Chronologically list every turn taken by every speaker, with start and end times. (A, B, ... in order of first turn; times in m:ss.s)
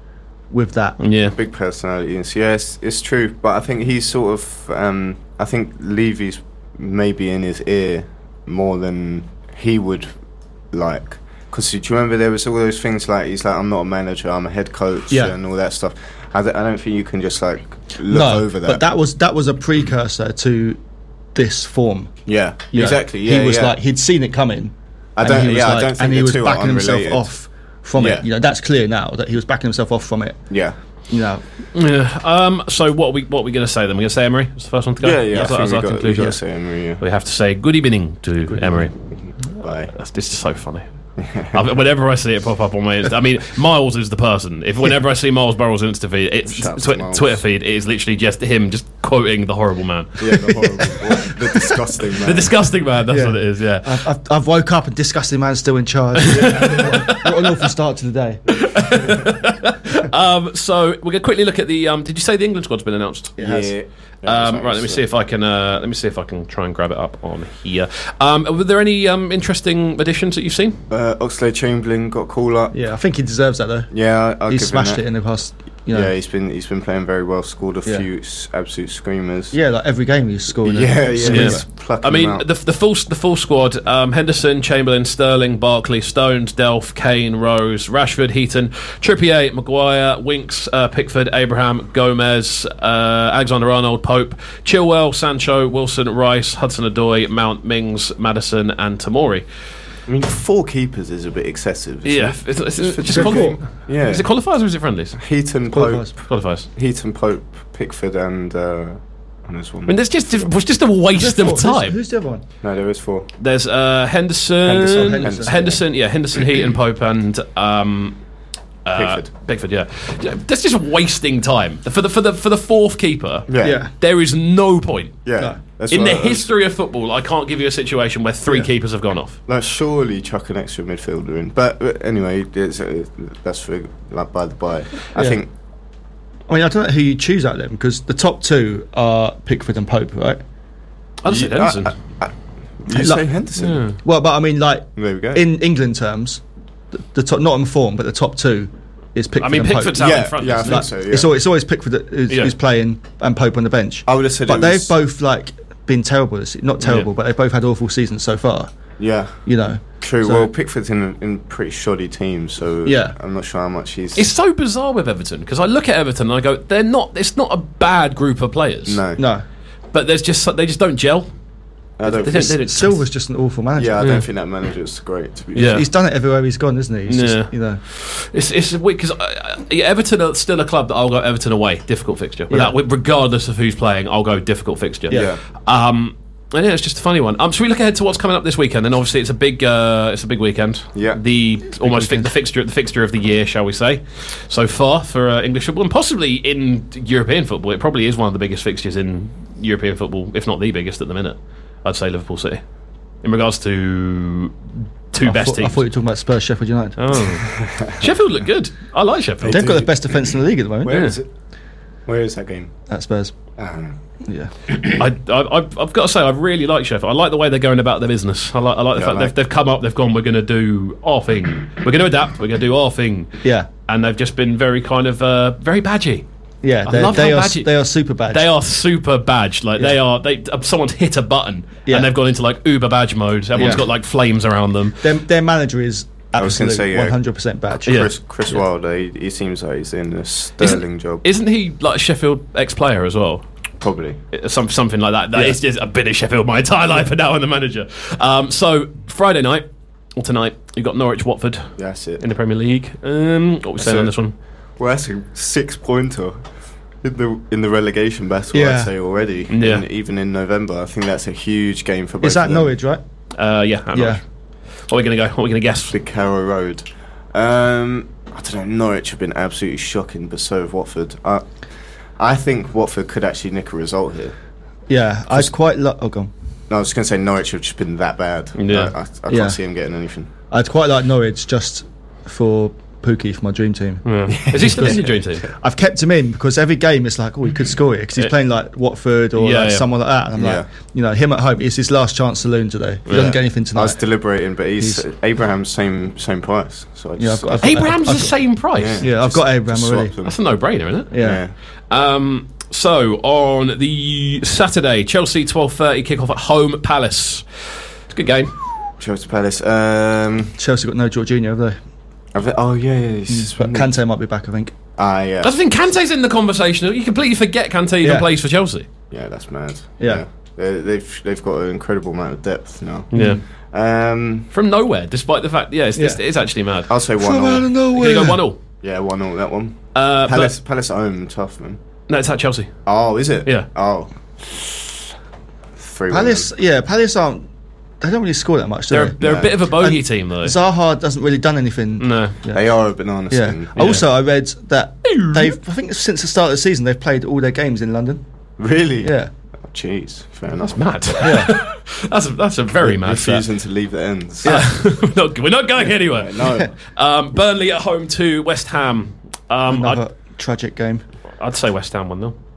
0:00.5-0:01.0 A
0:01.0-0:01.4 B
0:01.3-0:10.1 C
0:10.7-0:18.8 C
0:18.1-0:20.8 A
0:21.4-0:22.2 A
0:22.3-0:23.8 C
0:22.7-0:30.4 A
0:25.2-0:27.2 C
0:28.0-0:28.3 C
0:30.5-0:30.8 C
0:31.1-0:31.4 A
0:31.7-0:36.4 B
0:35.0-0:37.0 C
0:37.0-0:39.0 B
0:39.5-0:39.9 C
0:39.9-0:40.9 B
0:41.2-0:41.6 C
0:41.5-0:54.0 B
0:46.5-0:47.4 C
0:50.2-0:52.5 C
0:53.1-0:59.2 A
0:56.2-0:57.5 B
0:56.3-0:57.0 C
0:58.5-1:03.4 B
1:03.4-1:03.7 A
1:03.4-1:05.0 C
1:04.2-1:10.8 B
1:10.9-1:12.8 C
1:12.7-1:16.1 A
1:13.9-1:15.0 C
1:15.9-1:19.6 C
1:19.5-1:21.6 A
1:20.6-1:22.5 C
1:21.2-1:39.5 B
1:40.1-1:44.3 C
1:42.0-1:45.2 B
1:43.1-1:43.6 A
1:45.2-1:50.5 C
1:45.7-1:46.1 A
1:46.3-1:46.7 B
1:49.9-1:52.0 B
1:51.1-1:52.4 A
1:52.6-1:53.3 C
1:53.4-1:58.2 B
1:54.7-1:55.6 A
1:54.9-1:55.8 C
1:58.8-2:05.2 B
1:58.9-1:59.3 C
2:03.5-2:03.8 C
2:03.6-2:03.9 A
2:05.2-2:06.5 C
2:05.9-2:09.4 B
2:09.5-2:15.5 C
2:15.2-2:15.4 A
2:16.5-2:20.4 A
2:21.2-2:21.9 B
2:21.3-2:23.8 C
2:22.9-2:23.2 A
2:23.6-2:24.0 B
2:24.0-2:26.4 A
2:25.0-2:25.4 C
2:26.9-2:38.7 A
2:29.4-2:30.9 B
2:30.0-2:31.3 C
2:32.3-2:32.6 B
2:34.1-2:34.9 C
2:36.8-2:37.1 B
2:39.0-2:39.4 C
2:39.5-2:40.5 A
2:40.0-2:44.3 C
2:42.8-2:43.2 A
2:44.2-2:49.0 B
2:48.9-2:49.2 C
2:49.2-2:49.4 A
2:49.9-2:51.3 B
2:52.0-2:52.6 C
2:52.0-2:53.0 B
2:52.6-2:54.1 A
2:53.8-2:55.9 C
2:54.0-2:54.2 B
2:55.5-2:55.8 B
2:55.7-2:57.8 A
2:57.1-3:22.6 B
3:02.5-3:02.8 A
3:05.1-3:05.4 C
3:10.9-3:11.2 C
3:11.7-3:12.3 A
3:23.2-3:24.6 B
3:25.1-3:25.8 B
3:25.2-3:27.2 A
3:27.0-3:29.8 B
3:27.5-3:28.1 C
3:29.4-3:31.3 C
3:29.5-3:31.0 A
3:30.9-3:31.2 B
3:32.1-3:32.7 C
3:32.9-3:33.3 A
3:33.6-3:34.0 C
3:34.3-3:34.5 A
3:34.8-3:43.3 B
3:39.0-3:39.3 C
3:43.9-3:46.3 B
3:46.6-3:48.5 A
3:46.8-3:47.7 B
3:48.3-3:55.0 B
3:51.9-3:52.1 A
3:53.6-3:53.8 C
3:53.6-3:53.8 A
3:55.0-3:58.1 A
3:56.4-3:57.2 C
3:57.8-4:01.2 C
4:00.6-4:03.4 B
4:03.8-4:04.2 C
4:04.3-4:14.3 B
4:11.8-4:12.2 C
4:13.8-4:14.1 C
4:14.8-4:16.4 C
4:17.0-4:22.7 C
4:18.5-4:18.9 A
4:19.5-4:19.8 B
4:22.2-4:23.0 A
4:23.4-4:24.2 B
4:23.9-4:24.2 A
4:24.9-4:26.0 B
4:25.9-4:31.5 C
4:32.2-4:34.4 C
4:34.9-4:36.3 A
4:36.7-4:40.3 C
4:38.6-4:38.9 B
4:39.3-4:39.6 A
4:40.5-4:54.0 A
4:44.0-4:45.5 B
4:44.3-4:45.5 C
4:49.4-4:49.8 B
4:50.4-4:50.7 C
4:53.1-4:53.4 B
4:53.1-4:57.9 C
4:57.2-4:58.4 A
4:57.6-4:59.1 B
4:58.8-5:00.4 C
4:59.0-5:00.1 A
5:00.2-5:01.1 B
5:01.1-5:01.4 A
5:01.2-5:01.5 C
5:01.9-5:07.5 B
5:08.1-5:08.5 B
5:09.0-5:10.6 C
5:10.6-5:11.8 A
5:12.3-5:13.9 C
5:13.3-5:14.7 A
5:15.0-5:15.5 C
5:15.4-5:18.9 B
5:19.1-5:24.5 C
5:23.1-5:23.4 B
5:23.1-5:23.4 A
5:24.5-5:26.9 B
5:26.9-5:27.7 C
5:27.2-5:28.4 A
5:27.9-5:28.6 B
5:28.8-5:31.8 C
5:30.0-5:30.6 B
5:32.1-5:32.7 B
5:32.9-5:35.1 C
5:35.8-5:36.5 C
5:36.1-5:37.5 A
5:38.0-5:42.6 A
5:38.9-5:40.6 B
5:39.2-5:39.5 C
5:42.0-5:42.4 B
5:42.5-5:43.9 C
5:43.3-5:48.2 A
5:43.8-5:44.0 B
5:45.0-5:45.6 B
5:48.6-5:50.8 C
5:49.0-5:49.3 A
5:50.6-5:53.5 B
5:51.2-5:51.6 A
5:52.8-5:54.6 C
5:54.4-6:00.0 B
5:55.8-5:56.7 C
5:59.7-6:01.0 A
6:01.4-6:02.4 B